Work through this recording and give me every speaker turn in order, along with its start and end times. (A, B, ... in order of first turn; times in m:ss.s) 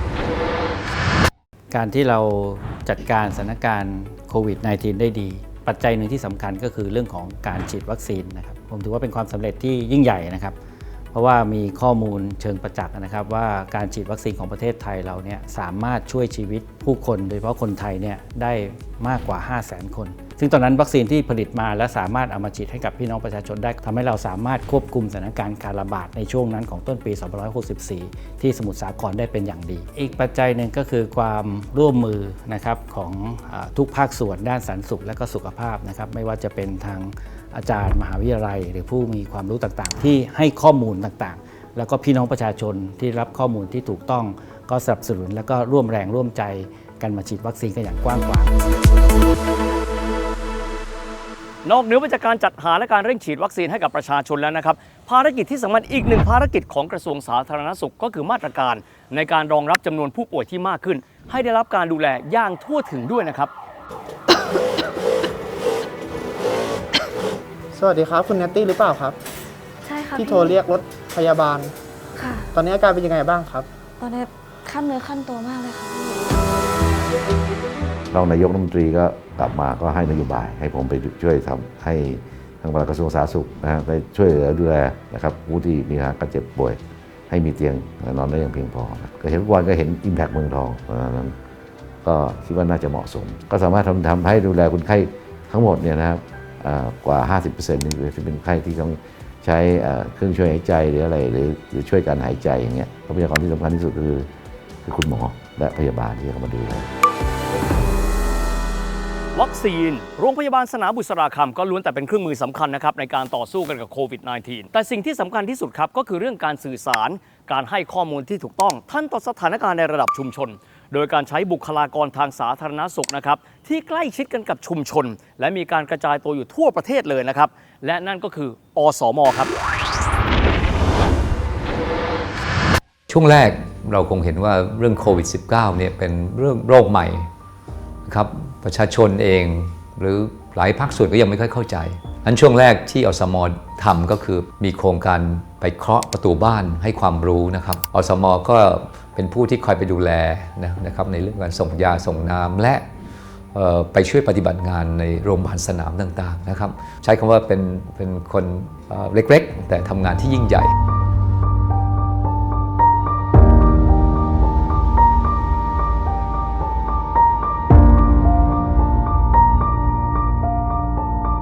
0:01.7-0:10.6 A
0:11.1-0:48.6 A
0:51.6-1:03.5 B
1:07.7-1:09.2 C
1:09.8-1:10.5 D
1:10.1-1:11.7 C
1:12.2-1:12.5 D
1:12.5-1:13.7 C
1:14.0-1:16.2 D
1:18.1-1:31.4 E
1:32.0-1:44.3 E
1:44.8-1:46.9 E
1:49.3-2:09.5 B
2:13.1-2:17.3 F
2:18.1-2:32.9 F
2:33.5-2:40.7 F